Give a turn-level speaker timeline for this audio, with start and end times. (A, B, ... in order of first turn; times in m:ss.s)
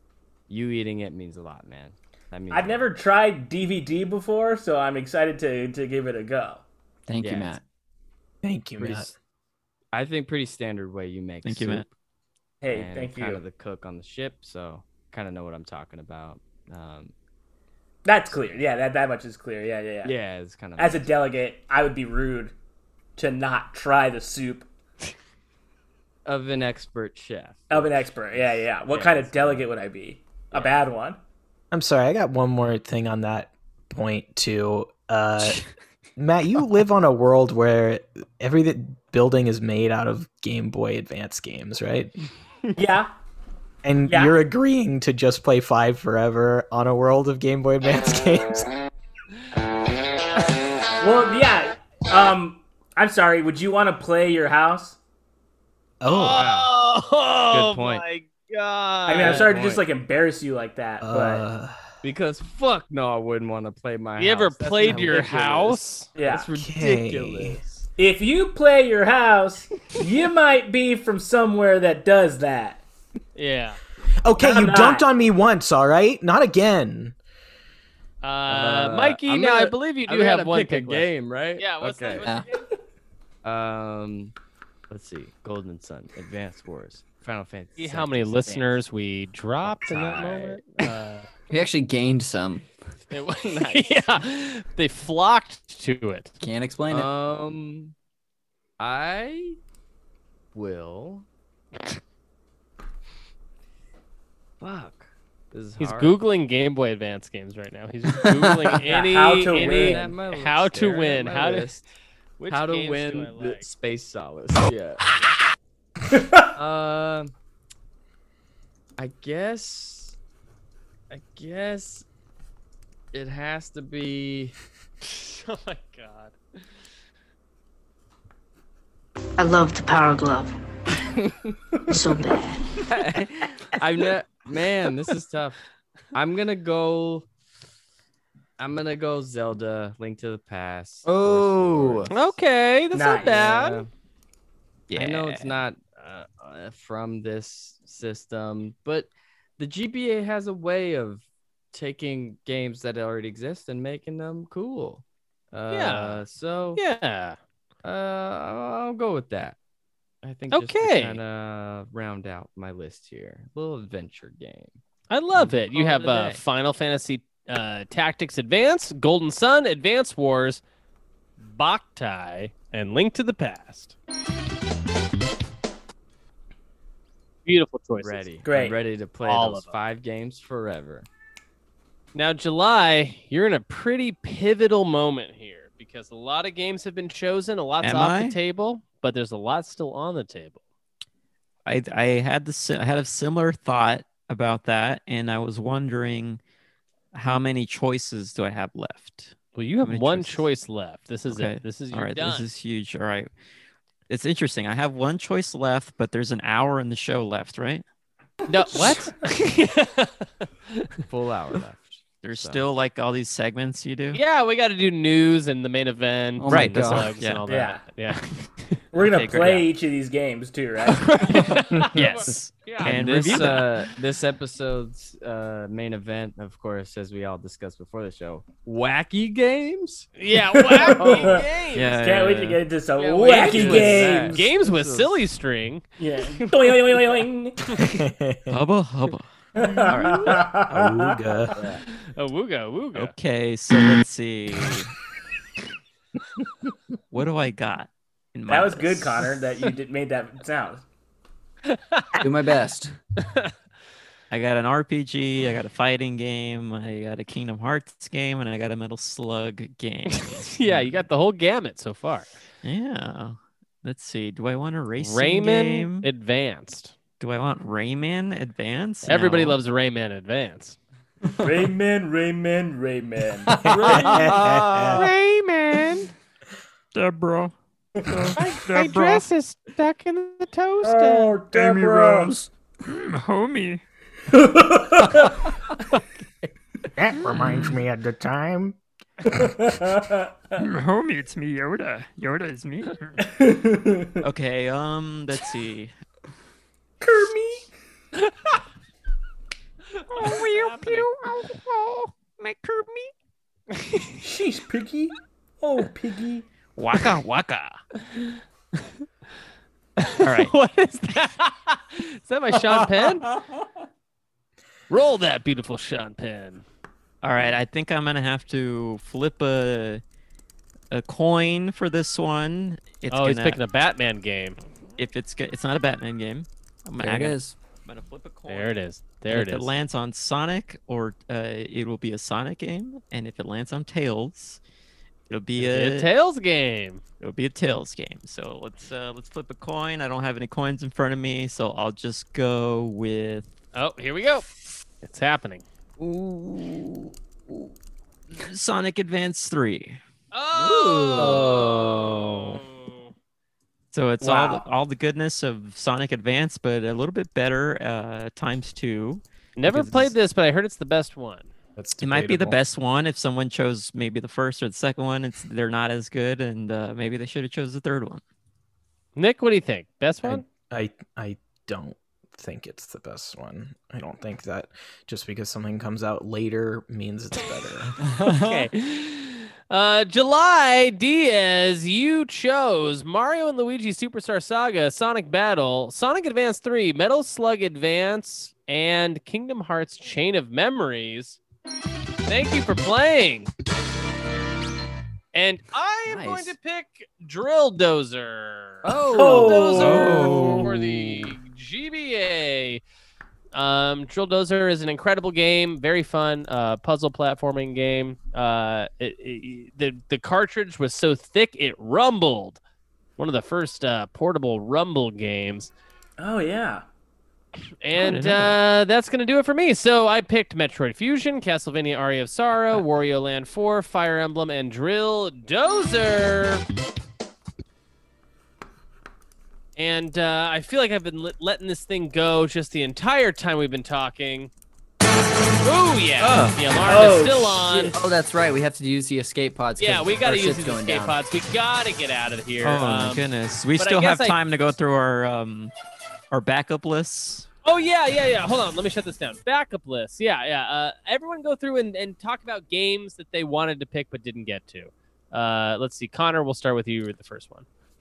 0:00.5-0:02.9 A
0:02.5-0:06.6 B
0:07.1-0:07.6 C
0:07.2-0:07.6 A
0:08.4-0:09.1 D
0:08.8-0:09.1 A
0:09.9-0:11.9 A
0:11.4-0:11.8 E
0:12.6-0:13.4 B
0:12.7-0:17.1 A
0:18.0-0:20.1 B
0:20.0-0:21.1 A
0:20.8-0:22.5 B
0:23.2-0:24.7 B
0:26.2-0:29.7 A
0:27.7-0:31.2 B
0:31.7-0:35.6 D
0:36.2-0:42.1 D
0:42.8-0:43.1 B
0:43.8-0:48.7 D
0:44.1-0:44.4 B
0:51.0-0:55.0 B
0:56.0-0:56.5 D
0:56.1-0:59.5 F
0:56.3-0:56.7 A
0:57.5-0:58.0 A
0:59.1-1:01.4 B
0:59.2-0:59.8 A
1:01.0-1:01.8 D
1:02.0-1:07.8 A
1:04.2-1:06.1 F
1:06.2-1:06.5 B
1:06.6-1:07.6 D
1:08.0-1:12.8 B
1:13.3-1:13.8 F
1:14.2-1:17.1 D
1:14.4-1:15.1 B
1:18.2-1:22.6 F
1:18.5-1:22.3 A
1:23.4-1:24.3 A
1:24.9-1:28.8 A
1:27.8-1:31.3 F
1:29.6-1:30.9 A
1:31.5-1:32.6 C
1:33.1-1:36.3 F
1:33.4-1:34.0 A
1:36.4-1:37.1 C
1:36.9-1:37.9 A
1:38.8-1:39.6 A
1:40.5-1:41.2 A
1:44.6-1:46.2 A
1:45.8-1:51.7 F
1:48.9-1:50.1 B
1:49.5-1:51.9 A
1:52.4-1:55.1 A
1:52.4-1:53.7 F
1:56.1-1:56.4 B
1:56.5-1:57.3 A
1:59.0-2:00.2 A
2:01.1-2:02.0 A
2:03.1-2:04.5 A
2:05.0-2:06.4 F
2:09.4-2:10.5 G
2:11.2-2:11.6 A
2:11.9-2:12.6 G
2:12.9-2:15.6 A
2:16.1-2:17.2 A
2:18.6-2:22.4 A
2:21.0-2:22.1 C
2:22.1-2:23.8 F
2:22.9-2:23.6 B
2:23.5-2:23.9 A
2:24.9-2:25.2 E
2:24.9-2:36.8 A
2:35.7-2:36.2 F
2:36.7-2:37.4 F
2:37.8-2:39.6 A
2:40.2-2:44.8 A
2:40.5-2:41.2 F
2:45.1-2:50.6 F
2:45.3-2:46.4 A
2:51.4-2:53.9 F
2:57.4-2:58.2 F
2:58.0-3:01.1 A
2:58.4-2:58.8 B
2:59.2-2:59.8 F
3:02.1-3:10.6 F
3:07.8-3:08.4 E
3:11.6-3:16.4 E
3:17.1-3:20.5 E
3:19.5-3:22.5 F
3:21.3-3:23.3 E
3:24.1-3:27.8 E
3:28.5-3:30.9 F
3:31.1-3:32.6 A
3:32.2-3:34.2 E
3:34.1-3:38.8 F
3:36.4-3:37.1 C
3:36.5-3:37.4 E
3:37.5-3:37.8 B
3:38.9-3:41.5 B
3:39.0-3:39.7 E
3:41.3-3:43.6 F
3:41.3-3:43.8 E
3:42.8-3:50.1 A
3:50.2-3:52.0 F
3:50.3-3:51.4 B
3:51.0-3:51.4 A
3:51.7-3:52.6 E
3:52.0-3:54.4 B
3:53.0-3:55.2 A
3:53.2-3:55.8 F
3:56.0-3:57.7 B
3:56.4-3:57.2 A
3:57.8-3:58.6 D
3:58.5-3:59.2 E
3:59.6-4:01.6 B
3:59.9-4:00.4 A
4:00.7-4:01.6 D
4:02.1-4:03.1 F
4:02.9-4:04.9 E
4:07.1-4:09.5 E
4:08.5-4:10.8 B
4:11.7-4:12.2 F
4:12.2-4:12.9 C
4:13.2-4:13.5 F
4:14.3-4:21.0 E
4:20.1-4:22.3 F
4:22.6-4:26.1 E
4:25.0-4:26.9 F
4:27.2-4:29.6 E
4:29.0-4:30.8 F
4:31.4-4:34.4 B
4:33.6-4:35.1 D
4:34.9-4:36.1 F
4:36.9-4:37.5 E
4:38.4-4:41.4 F
4:38.7-4:39.2 E
4:40.8-4:42.4 B
4:41.6-4:42.2 D
4:43.1-4:43.8 E
4:44.3-4:45.5 B
4:47.0-4:48.8 D
4:47.3-4:47.8 E
4:49.3-4:50.4 B
4:50.6-4:53.1 E
4:53.2-4:54.2 B
4:54.2-4:55.9 E
4:57.0-4:57.7 B
5:00.1-5:01.1 F
5:00.1-5:03.1 E
5:04.2-5:06.4 B
5:06.8-5:07.8 E
5:10.0-5:13.2 F
5:10.2-5:10.5 E
5:14.9-5:16.6 F
5:17.2-5:20.0 E
5:20.9-5:23.6 E
5:23.1-5:24.6 F
5:25.0-5:28.8 E
5:27.0-5:27.6 C
5:28.5-5:29.7 F
5:29.3-5:34.6 E
5:35.3-5:36.1 E
5:35.6-5:37.0 F
5:37.2-5:43.5 E
5:43.7-5:44.4 F
5:45.0-5:45.6 F
5:46.0-5:46.7 D
5:48.4-5:50.0 E
5:50.3-5:53.1 F
5:51.1-5:51.4 E
5:51.2-5:52.3 D
5:53.9-6:00.1 E
5:54.2-5:54.6 B
5:59.6-6:01.5 F
6:01.8-6:02.6 D
6:02.0-6:08.2 E
6:09.2-6:10.4 F
6:10.2-6:18.0 D
6:18.2-6:18.6 C
6:18.3-6:31.4 F
6:32.2-6:33.5 F
6:35.3-6:42.8 F
6:36.1-6:36.5 C
6:38.8-6:39.5 A
6:39.0-6:39.4 C
6:39.1-6:40.4 B
6:39.7-6:41.2 E
6:43.5-6:52.6 F
6:53.2-6:55.7 F
6:56.2-6:56.8 B
6:57.8-7:06.6 F
6:57.9-6:58.6 E
7:09.8-7:14.5 F
7:15.6-7:18.0 F
7:16.2-7:16.6 E
7:16.8-7:18.0 B
7:17.9-7:21.2 C
7:19.8-7:24.4 F
7:22.6-7:25.7 E
7:26.3-7:27.5 E
7:27.6-7:37.6 F